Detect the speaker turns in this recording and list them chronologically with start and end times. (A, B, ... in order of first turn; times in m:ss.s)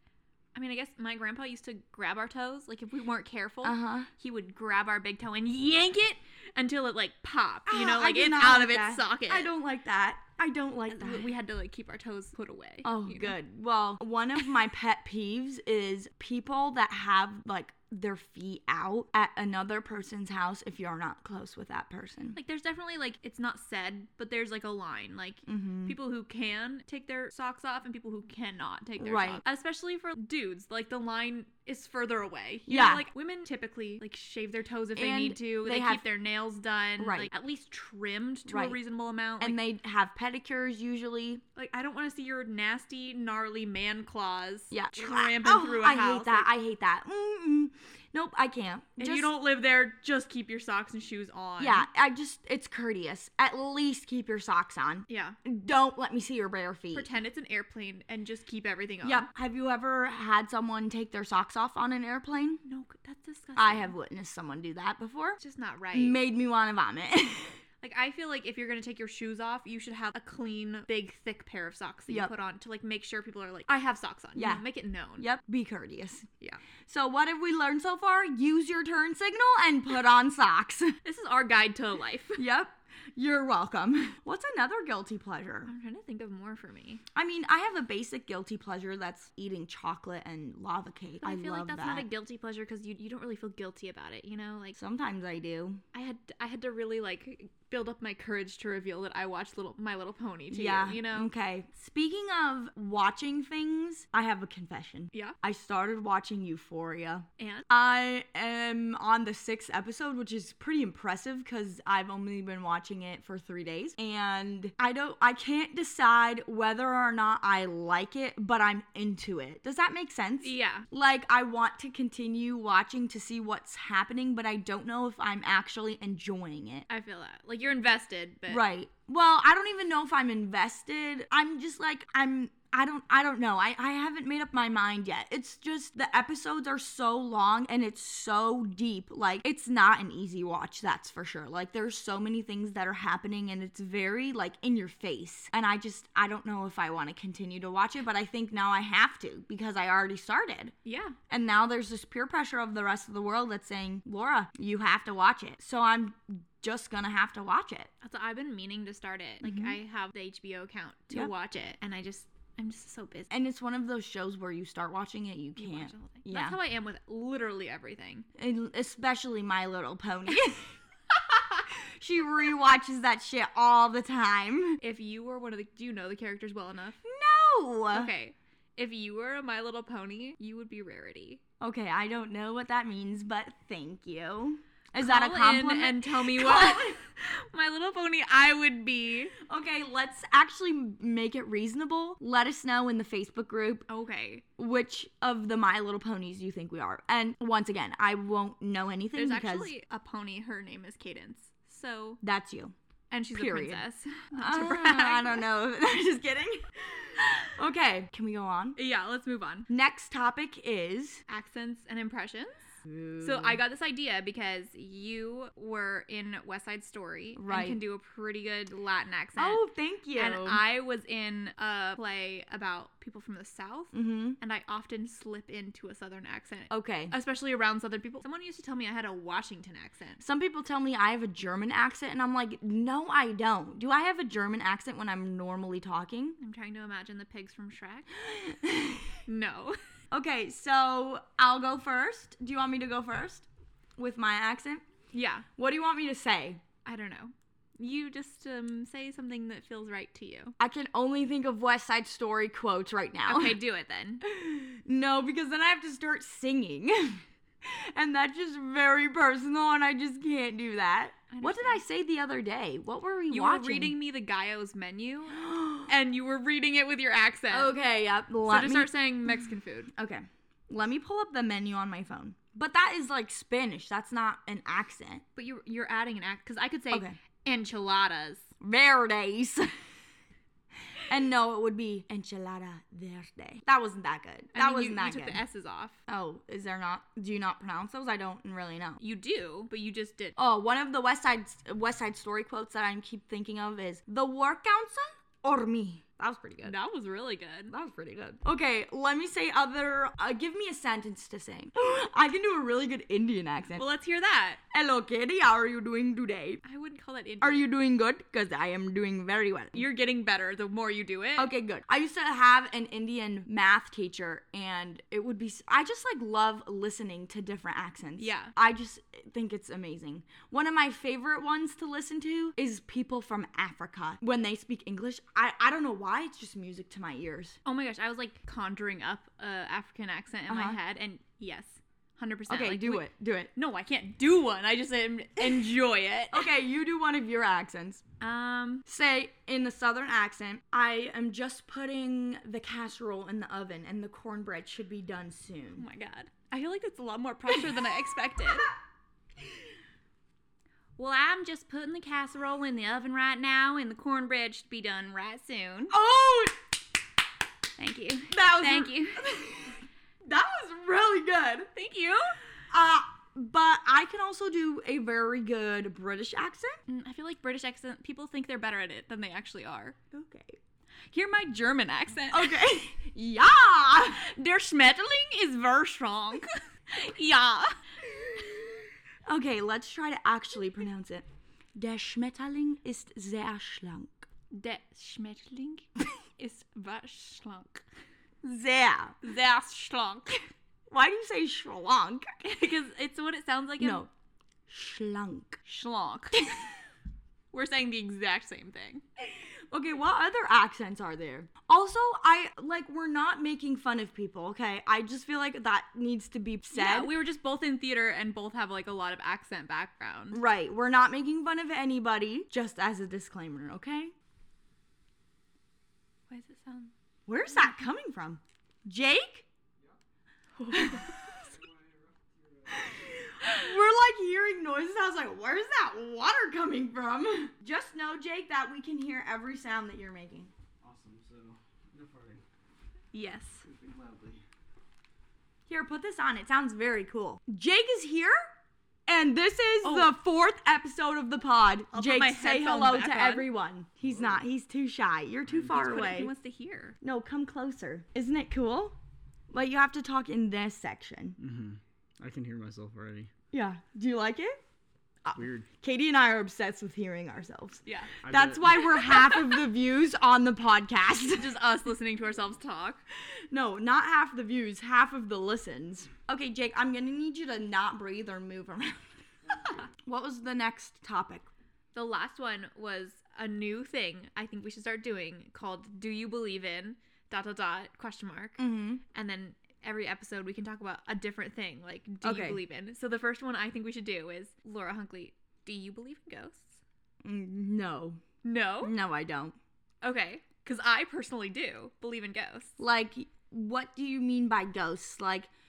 0:00.5-0:09.5 A
0:03.6-0:04.1 B
0:07.7-0:11.3 B
0:10.9-0:13.4 A
0:12.8-0:22.4 B
0:22.3-0:39.6 A
0:25.4-0:26.0 B
0:29.0-0:29.4 B
0:32.7-0:33.1 B
0:35.0-0:36.0 B
0:37.0-0:37.3 B
0:38.5-0:38.8 B
0:39.4-0:41.4 B
0:41.6-0:46.5 A
0:44.7-0:49.3 B
0:49.0-0:51.9 A
0:51.6-0:57.1 B
0:55.1-0:55.4 A
0:56.9-0:59.2 A
0:59.0-1:02.6 B
1:02.6-1:03.9 A
1:03.6-1:05.4 B
1:05.4-1:06.2 A
1:05.9-1:07.6 B
1:07.8-1:15.2 A
1:14.4-1:14.6 B
1:15.2-1:16.3 B
1:16.9-1:21.0 B
1:21.0-1:22.4 A
1:22.4-1:25.7 B
1:25.6-1:27.0 A
1:27.1-1:32.1 B
1:31.2-1:34.8 A
1:34.8-1:35.8 B
1:35.9-1:41.3 A
1:40.5-2:06.9 B
1:47.4-1:47.7 A
2:00.4-2:00.9 A
2:06.9-2:08.6 A
2:08.5-2:30.7 B
2:30.8-2:31.2 A
2:31.3-2:37.9 B
2:38.0-2:43.3 A
2:39.4-2:39.8 B
2:43.3-2:46.6 B
2:45.6-2:48.2 A
2:48.4-2:50.7 B
2:51.3-2:51.6 A
2:52.0-2:54.8 B
2:54.8-2:57.0 A
2:57.0-2:58.1 B
2:57.9-3:01.4 A
3:01.6-3:07.0 B
3:05.0-3:09.3 A
3:09.4-3:13.9 B
3:13.9-3:14.4 A
3:14.6-3:19.7 B
3:19.1-3:22.2 A
3:22.2-3:22.7 B
3:23.1-3:25.4 A
3:23.4-3:23.8 B
3:24.4-3:28.8 B
3:28.8-3:29.7 A
3:29.7-3:31.2 B
3:31.3-3:32.7 A
3:32.8-3:33.6 B
3:33.2-3:39.6 A
3:37.4-3:37.8 B
3:39.4-3:40.6 B
3:40.1-3:50.2 A
3:43.9-3:44.4 B
3:46.7-3:47.1 B
3:50.2-3:56.4 B
3:56.4-3:58.1 A
3:58.2-3:59.2 B
3:59.3-3:59.8 A
4:00.1-4:03.5 B
4:04.0-4:04.8 B
4:05.1-4:05.5 A
4:05.6-4:06.6 B
4:06.8-4:10.5 A
4:10.6-4:13.6 B
4:13.2-4:14.2 A
4:14.2-4:24.0 B
4:21.3-4:21.8 A
4:23.3-4:27.7 A
4:25.4-4:25.9 B
4:27.5-4:28.9 B
4:28.5-4:29.9 A
4:29.9-4:35.2 B
4:35.4-4:38.5 A
4:36.9-4:37.2 B
4:38.6-4:39.7 B
4:41.0-4:45.4 B
4:44.5-4:46.0 A
4:46.1-4:49.0 B
4:49.0-4:50.4 A
4:50.4-4:56.7 B
4:56.6-4:57.7 A
4:57.7-5:03.8 B
5:03.8-5:04.6 A
5:04.7-5:06.6 B
5:06.6-5:07.7 A
5:07.4-5:09.8 B
5:09.7-5:11.5 A
5:11.4-5:27.6 B
5:18.2-5:18.5 A
5:27.6-5:36.5 A
5:30.5-5:30.8 B
5:32.5-5:33.5 B
5:36.3-5:38.0 B
5:38.2-5:38.9 A
5:38.9-5:45.8 B
5:45.8-5:48.7 A
5:51.0-5:55.9 A
5:55.9-5:56.6 B
5:57.8-5:59.3 A
5:58.3-6:01.7 B
6:01.7-6:02.3 A
6:02.7-6:06.8 B
6:06.9-6:10.0 A
6:10.1-6:10.6 B
6:11.1-6:12.6 A
6:12.3-6:14.2 B
6:14.1-6:17.8 A
6:18.1-6:18.6 B
6:19.2-6:24.3 B
6:24.5-6:27.8 A
6:28.4-6:29.1 B
6:29.2-6:30.4 A
6:30.9-6:32.3 B
6:32.4-6:34.0 A
6:33.8-6:34.1 B
6:34.7-6:35.6 B
6:35.6-6:36.5 A
6:37.5-6:39.0 A
6:39.2-6:47.1 B
6:46.7-6:50.4 A
6:50.3-6:54.1 B
6:56.3-6:56.9 A
6:57.3-6:59.5 B
7:00.6-7:01.1 B
7:01.4-7:03.2 C
7:02.8-7:10.5 B
7:10.8-7:12.4 C
7:13.1-7:13.6 A
7:13.6-7:14.4 C
7:15.7-7:18.5 B
7:19.1-7:26.3 B
7:19.8-7:20.1 A
7:21.9-7:23.5 A
7:24.0-7:24.4 C
7:25.5-7:25.8 C
7:25.7-7:27.0 A
7:27.0-7:29.0 B
7:29.5-7:31.4 B
7:31.4-7:33.3 C
7:33.5-7:34.6 B
7:35.2-7:41.6 B
7:35.4-7:35.6 C
7:37.9-7:38.1 A
7:38.2-7:39.2 C
7:41.4-7:43.0 A
7:43.2-7:49.0 B
7:50.0-7:51.5 B
7:51.9-7:58.6 A
7:58.6-7:59.0 B
7:59.1-8:06.8 A
8:02.2-8:02.6 B
8:07.2-8:08.2 B
8:08.4-8:09.0 A
8:08.8-8:09.6 B
8:10.0-8:12.8 A
8:12.8-8:15.5 B